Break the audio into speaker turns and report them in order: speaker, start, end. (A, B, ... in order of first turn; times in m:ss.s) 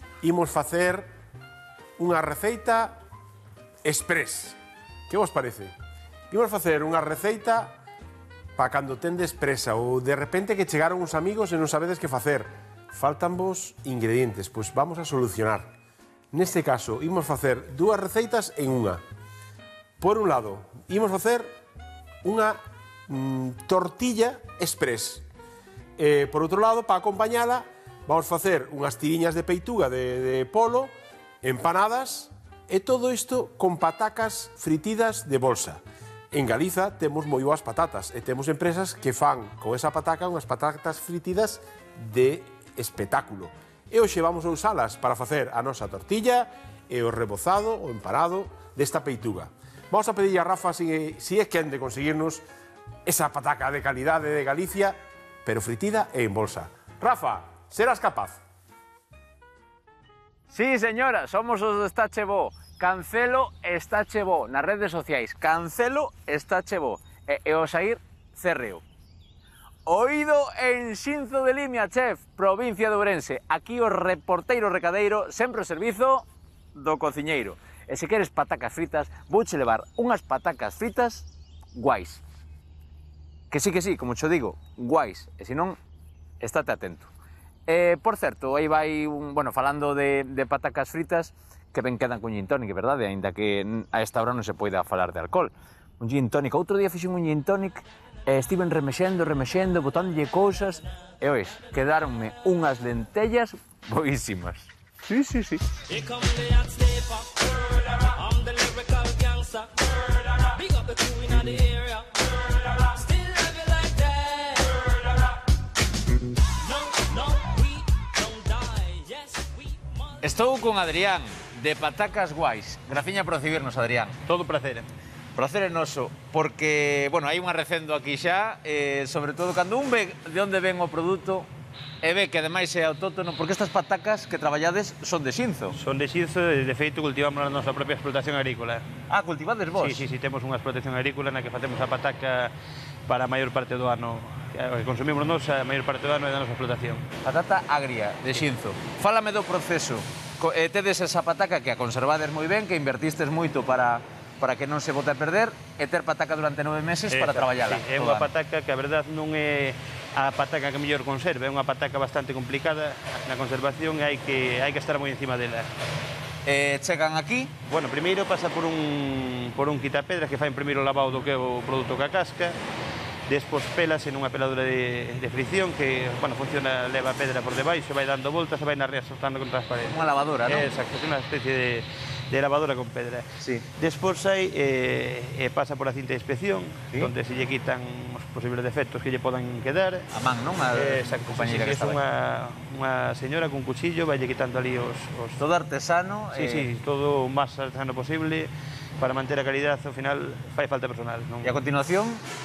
0:00.2-0:01.1 A
0:02.0-0:03.0 A
0:03.8-0:04.6 A
0:05.1-0:05.7 A
0:06.3-0:07.8 A
0:08.6-0:15.7 A
0:16.3-0:19.0 A
0:20.0-0:21.5 A
0:22.2-0:25.2 A
0:26.0-0:35.8 A
0:36.3-0:52.4 A
0:53.1-0:58.4 A
1:00.5-1:08.8 B
1:09.9-1:22.2 B
1:23.5-1:25.8 B
1:26.4-1:27.1 B
1:27.7-1:52.1 B
1:52.7-1:54.9 B
1:56.9-1:59.3 B
2:00.2-2:04.2 B
2:04.2-2:04.9 C
2:05.4-2:11.5 B
2:12.0-2:15.8 B
2:15.8-2:18.9 C
2:19.1-2:20.0 B
2:19.8-2:22.5 C
2:23.1-2:27.1 C
2:27.2-2:38.3 B
2:37.1-2:45.7 C
2:46.4-2:47.5 B
2:47.7-2:52.6 C
2:53.3-3:10.1 C
2:59.8-3:00.7 B
3:10.1-3:12.0 B
3:10.7-3:15.4 C
3:15.4-3:16.7 B
3:16.3-3:21.6 C
3:21.4-3:22.2 B